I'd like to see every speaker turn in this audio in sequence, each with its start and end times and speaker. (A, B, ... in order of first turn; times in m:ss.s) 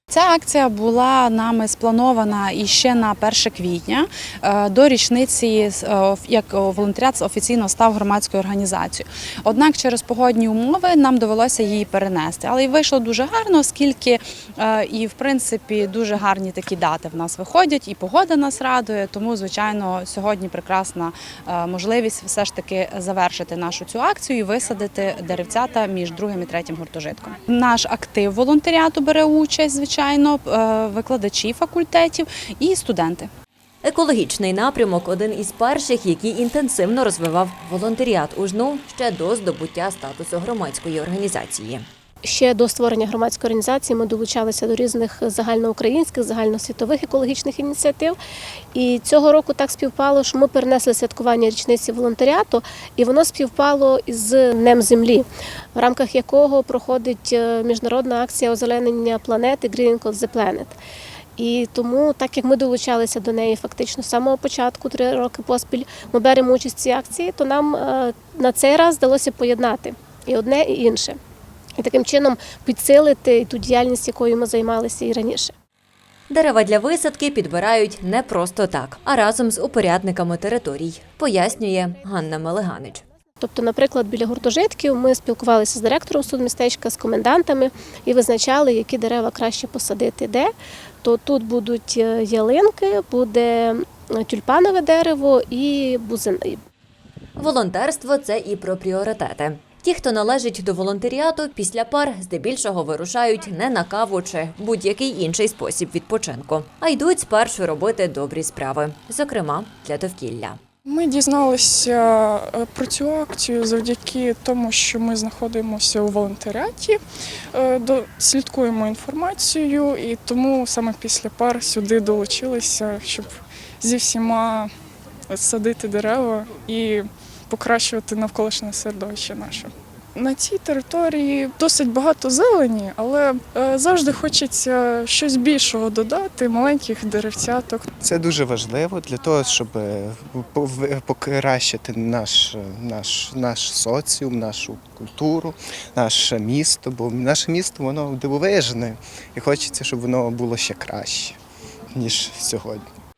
0:00.1-0:33.3 A
0:33.8-0:41.9 B
0:42.2-0:48.2 C
0:48.8-1:00.8 C
1:01.4-1:11.2 C
1:11.8-1:15.5 C
1:16.3-1:23.0 B
1:23.4-1:30.5 C
1:31.0-1:36.6 C
1:37.4-1:50.6 B
1:50.9-1:57.0 D
1:57.5-2:04.7 D
2:05.3-2:17.9 D
2:18.0-2:31.4 E
2:31.9-2:32.9 E